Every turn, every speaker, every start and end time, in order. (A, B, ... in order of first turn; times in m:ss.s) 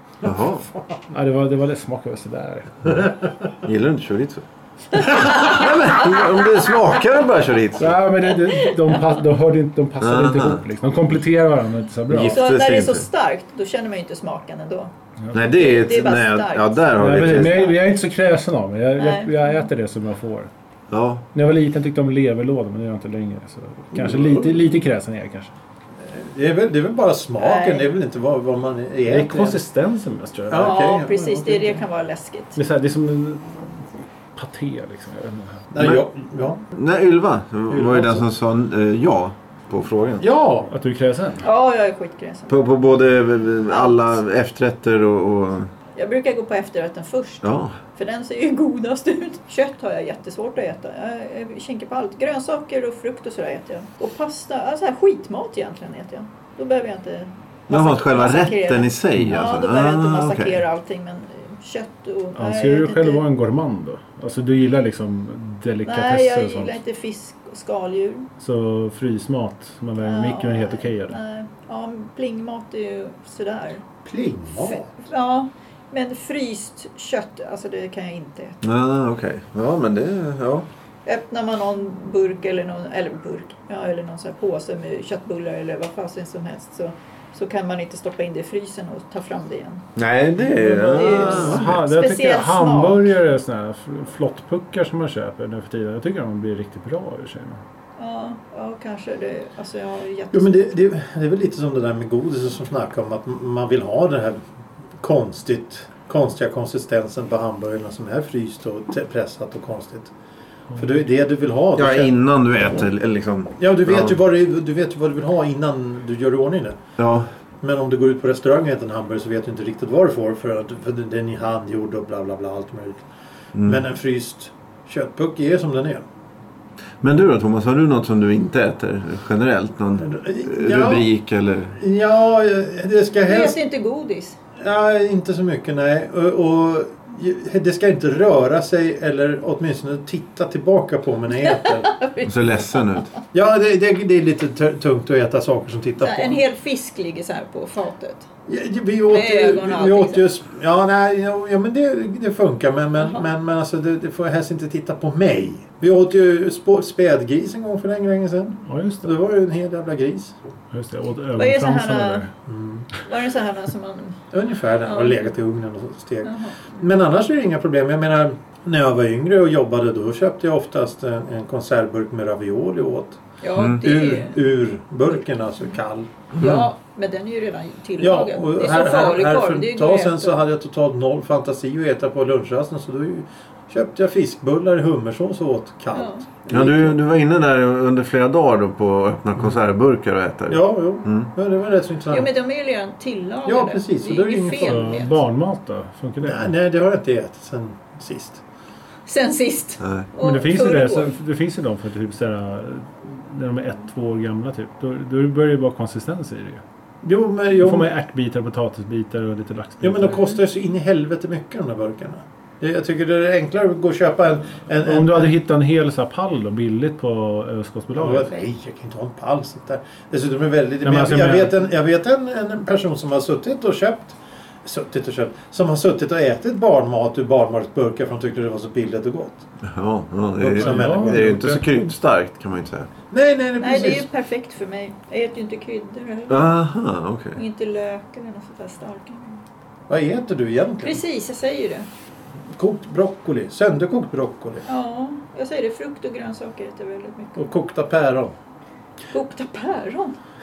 0:00.2-0:00.7 A
0:01.1-0:03.1 B
0:03.6-0:04.4 A
0:05.0-0:06.3 C
0:05.0-0:08.0 A
0:07.8-0:12.4 B
0:08.5-0:09.0 C
0:10.0-0:10.6 A
0:12.1-0:13.1 A
0:12.3-0:17.7 C
0:15.3-0:17.7 A
0:17.0-0:20.5 B
0:19.0-0:19.7 C
0:20.9-0:21.2 A
0:21.3-0:25.5 B
0:26.0-0:29.6 D
0:27.4-0:27.9 C
0:29.1-0:30.8 B
0:30.5-0:31.8 D
0:30.5-0:32.6 C
0:32.6-0:35.6 B
0:35.7-0:36.6 D
0:35.8-0:36.0 A
0:36.7-0:40.2 A
0:37.7-0:38.2 D
0:40.2-0:40.7 D
0:40.7-0:41.5 B
0:41.4-0:42.7 C
0:42.5-0:45.7 A
0:43.7-0:44.2 C
0:46.0-1:03.2 C
0:47.4-0:47.8 A
0:57.7-1:00.6 A
1:02.4-1:06.8 B
1:05.8-1:08.3 C
1:08.4-1:11.2 B
1:10.0-1:13.8 C
1:14.0-1:14.9 D
1:14.6-1:18.6 C
1:18.6-1:20.7 A
1:21.1-1:29.9 C
1:30.0-1:31.8 A
1:30.6-1:33.1 C
1:31.0-1:37.6 B
1:38.0-1:40.8 C
1:40.3-1:44.4 D
1:45.0-1:50.1 D
1:50.8-1:52.1 D
1:51.8-1:54.2 A
1:53.6-1:56.8 D
1:57.0-1:57.3 A
1:57.6-2:03.0 D
2:03.6-2:03.8 A
2:03.6-2:06.0 D
2:07.0-2:11.8 A
2:10.0-2:11.1 D
2:11.8-2:13.6 D
2:13.3-2:14.4 C
2:14.6-2:21.9 D
2:21.3-2:23.1 C
2:22.2-2:23.1 A
2:23.3-2:26.4 D
2:26.0-2:28.3 C
2:28.5-2:40.4 D
2:29.1-2:30.3 C
2:33.0-2:33.3 C
2:38.6-2:39.1 B
2:40.7-2:42.3 B
2:41.4-2:42.3 C
2:42.5-2:42.9 D
2:43.0-2:44.2 C
2:44.3-2:53.2 D
2:44.8-2:45.3 C
2:46.2-2:46.8 C
2:53.4-2:54.4 C
2:53.6-2:53.8 A
2:53.8-2:56.6 D
2:56.4-3:00.4 C
2:58.0-3:07.0 D
3:05.9-3:06.3 C
3:06.5-3:11.3 A
3:10.5-3:12.3 D
3:12.1-3:15.2 C
3:13.5-3:15.0 D
3:14.6-3:16.5 B
3:16.2-3:18.4 D
3:19.1-3:21.1 C
3:19.8-3:20.1 A
3:20.2-3:26.6 B
3:27.0-3:27.9 D
3:27.6-3:30.3 B
3:29.8-3:35.3 D
3:34.8-3:38.3 B
3:38.0-3:49.4 D
3:40.8-3:41.6 B
3:49.6-3:52.9 A
3:50.4-3:51.4 D
3:50.5-3:51.7 B
3:53.1-3:54.0 D
3:53.6-3:56.4 C
3:56.3-3:57.4 A
3:57.4-3:59.4 C
3:59.9-4:01.0 D
4:00.8-4:01.9 C
4:02.6-4:04.6 D
4:04.7-4:07.4 C
4:07.4-4:08.4 D
4:09.1-4:10.2 C